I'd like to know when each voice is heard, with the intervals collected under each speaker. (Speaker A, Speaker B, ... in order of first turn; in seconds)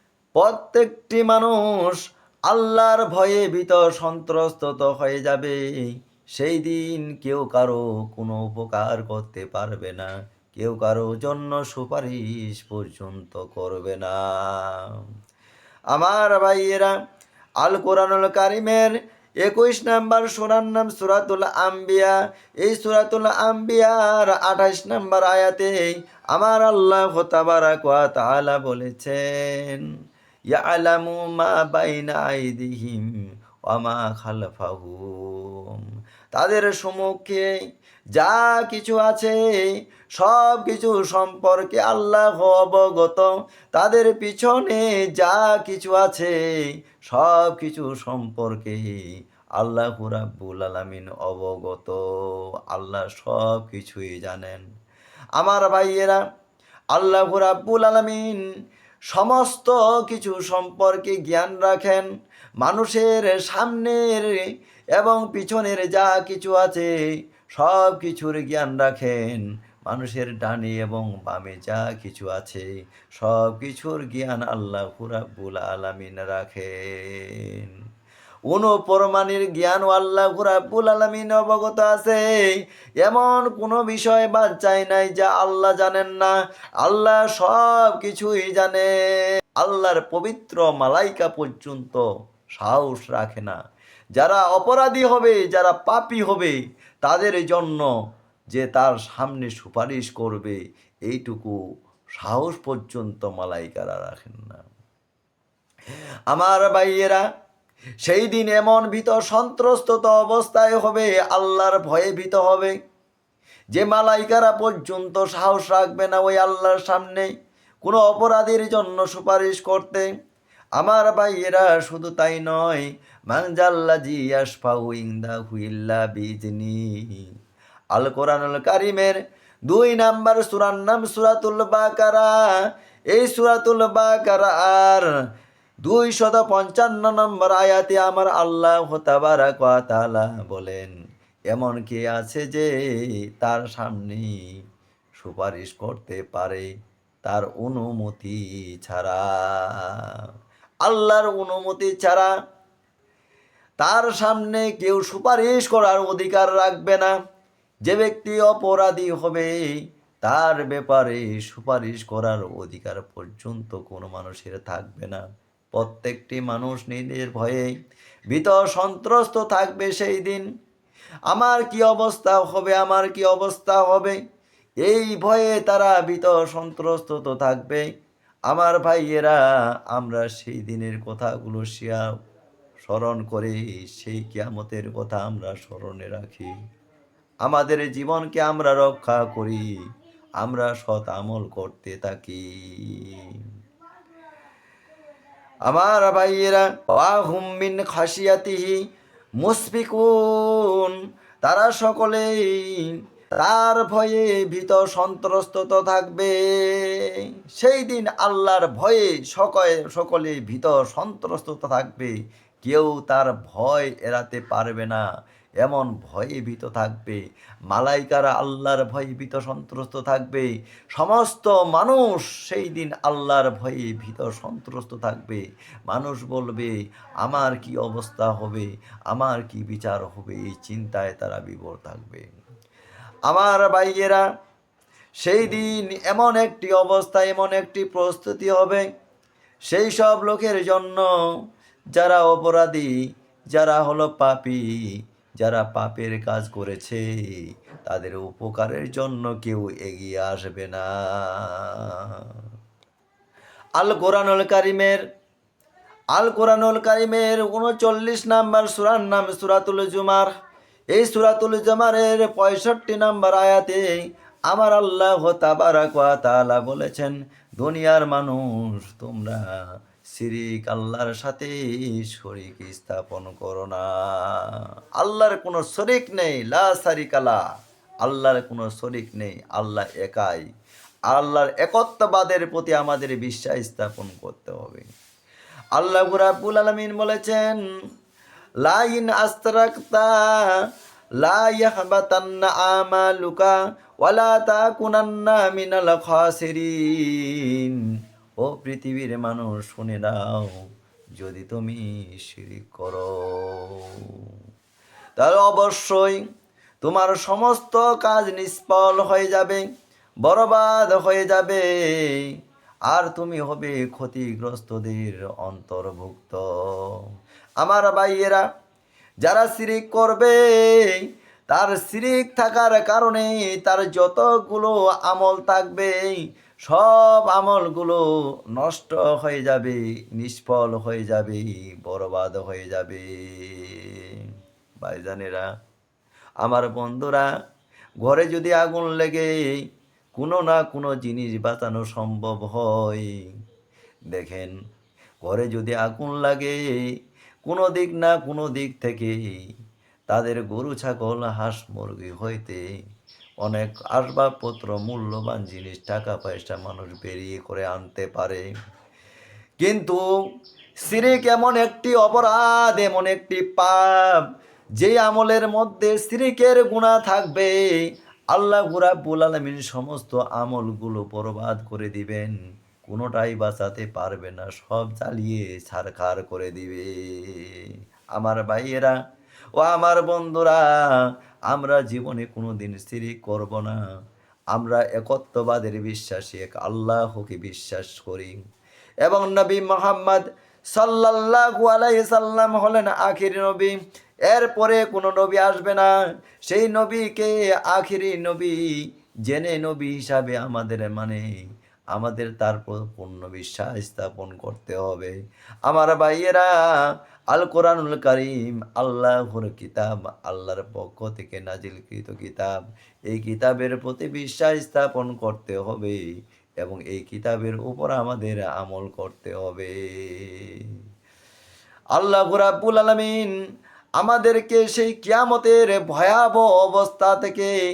Speaker A: 0.4-5.6, 6.4-15.0, 15.9-16.9, 17.6-18.9, 19.4-29.8, 30.5-33.0, 33.7-35.8, 36.3-37.5, 38.2-39.6, 40.2-46.3, 47.1-49.0, 49.6-52.0, 52.7-54.6, 55.4-56.2, 57.0-58.4, 59.1-62.1, 62.6-66.9, 67.6-72.7, 73.2-77.7, 78.5-82.2, 83.0-88.9, 89.6-92.0, 92.6-93.6, 94.2-97.9, 98.5-101.6, 102.2-104.6, 106.3-107.2, 108.0-112.7, 113.8-117.3, 117.8-120.1, 120.8-127.3, 127.9-129.2, 129.7-132.5, 133.1-135.1, 135.8-140.9, 141.5-142.7, 143.4-144.3, 145.2-146.7, 147.2-150.2, 150.8-152.3, 153.8-157.1, 157.9-159.6, 160.2-165.2, 165.7-167.7, 168.3-170.4, 171.3-174.2, 174.8-177.8, 178.5-179.4, 179.9-182.1, 182.8-186.5, 187.4-189.7, 190.4-193.4, 195.7-198.8, 199.4-215.0, 215.6-217.2, 217.7-232.2, 233.3-234.2, 235.2-238.8, 239.7-241.1, 241.9-242.9, 243.5-244.7, 245.4-252.4, 253.8-255.0, 256.1-260.3, 260.9-264.0, 264.5-269.4, 270.1-277.4, 278.0-280.4, 281.1-284.9, 285.8-287.6, 288.6-290.5, 291.2-297.8, 298.4-300.6, 301.2-304.4, 305.2-306.2, 306.8-309.6, 310.2-312.3, 312.9-317.0, 317.6-318.4, 319.2-328.0, 328.6-334.2, 334.8-335.4, 336.4-337.3, 338.0-339.6, 340.2-343.1, 344.1-344.5, 345.2-346.8, 347.5-349.2, 350.1-352.6, 353.4-358.4, 359.6-360.0, 360.8-364.2, 364.8-367.6, 368.3-372.3, 372.9-379.0, 379.6-383.8, 384.5-388.4, 389.1-393.7, 394.3-395.9, 396.5-398.7, 399.3-401.2, 401.9-405.1, 405.7-406.8, 407.3-412.5, 413.1-416.0, 416.6-420.7, 421.9-423.3, 424.0-427.6